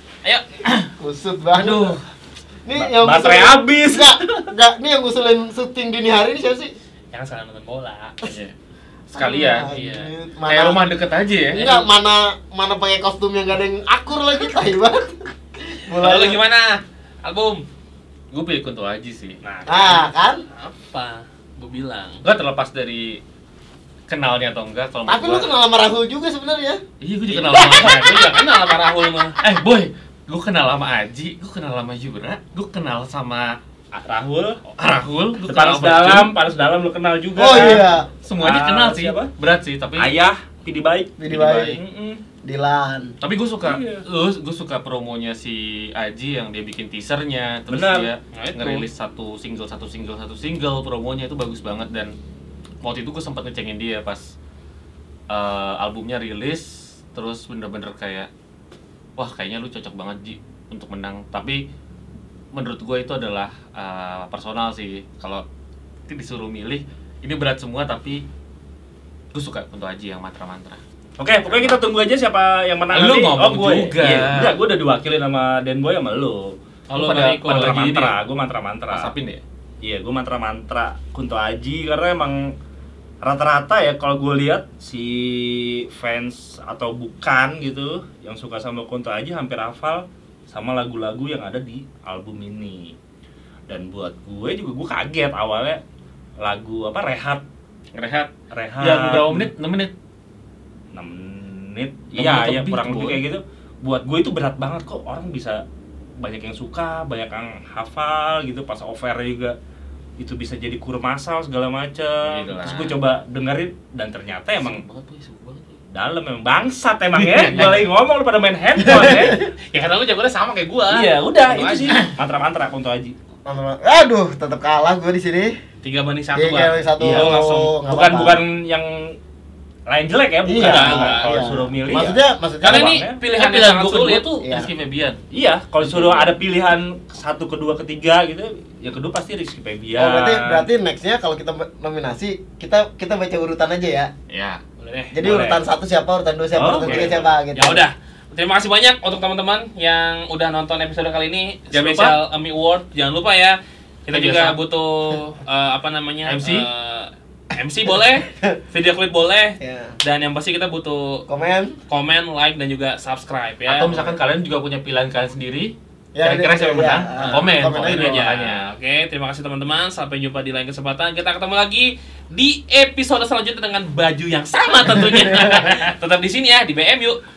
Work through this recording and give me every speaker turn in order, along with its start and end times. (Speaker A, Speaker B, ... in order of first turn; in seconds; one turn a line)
Speaker A: 1.0-2.0
Speaker B: 1.5-2.0
Speaker A: 2.6-6.7
Speaker C: 2.7-4.5
Speaker D: 7.1-8.2
Speaker B: 8.2-8.5
Speaker B: 9.1-9.7
Speaker A: 9.1-10.8
Speaker D: 9.7-10.1
Speaker B: 10.5-11.8
Speaker A: 11.5-15.1
Speaker A: 15.6-16.4
Speaker D: 16.0-17.6
Speaker B: 18.3-19.4
Speaker D: 19.4-22.2
Speaker A: 19.7-20.4
Speaker B: 22.2-23.2
Speaker B: 24.1-25.5
Speaker A: 25.1-26.8
Speaker B: 27.0-28.1
Speaker D: 27.4-29.4
Speaker B: 29.4-33.6
Speaker C: 33.9-34.6
Speaker B: 34.7-36.4
Speaker C: 35.5-39.3
Speaker A: 37.3-38.1
Speaker B: 37.5-40.1
Speaker C: 40.0-41.2
Speaker A: 41.2-41.8
Speaker B: 41.3-41.8
Speaker C: 41.7-42.2
Speaker A: 42.4-43.1
Speaker B: 43.2-52.1
Speaker C: 43.6-44.0
Speaker C: 47.7-48.1
Speaker D: 48.3-48.8
Speaker B: 52.8-54.3
Speaker B: 55.3-58.3
Speaker B: 59.2-61.6
Speaker B: 62.5-65.4
Speaker B: 66.1-68.2
Speaker B: 69.3-70.8
Speaker C: 71.2-76.6
Speaker B: 71.4-71.8
Speaker B: 72.9-74.6
Speaker D: 76.9-78.1
Speaker B: 76.9-78.2
Speaker C: 77.4-79.1
Speaker B: 78.9-79.4
Speaker C: 79.8-82.5
Speaker C: 83.2-93.0
Speaker C: 93.7-95.8
Speaker C: 96.4-97.4
Speaker B: 97.9-99.9
Speaker C: 98.5-99.5
Speaker C: 100.9-105.6
Speaker B: 102.1-103.2
Speaker C: 106.2-109.5
Speaker C: 110.2-114.8
Speaker B: 112.2-113.0
Speaker B: 114.6-115.8
Speaker C: 115.9-119.4
Speaker B: 117.1-117.8
Speaker A: 118.8-119.5
Speaker D: 119.7-122.0
Speaker C: 120.9-123.1
Speaker A: 123.5-125.5
Speaker D: 125.8-127.8
Speaker A: 126.3-128.4
Speaker C: 127.0-129.2
Speaker C: 129.9-133.2
Speaker A: 130.4-132.9
Speaker D: 130.6-131.3
Speaker D: 132.6-134.3
Speaker B: 133.3-135.2
Speaker A: 134.4-134.7
Speaker C: 135.3-140.7
Speaker B: 135.8-136.3
Speaker A: 139.9-144.1
Speaker B: 144.3-144.6
Speaker D: 144.8-145.2
Speaker A: 145.1-147.8
Speaker C: 145.2-145.6
Speaker C: 146.5-147.3
Speaker B: 146.8-147.1
Speaker D: 147.5-161.2
Speaker B: 151.7-152.2
Speaker B: 154.1-154.6
Speaker B: 156.2-156.7
Speaker A: 159.6-159.9
Speaker A: 161.3-161.8
Speaker D: 161.9-164.1
Speaker B: 163.7-168.7
Speaker A: 166.1-168.2
Speaker D: 167.1-177.2
Speaker A: 174.9-175.8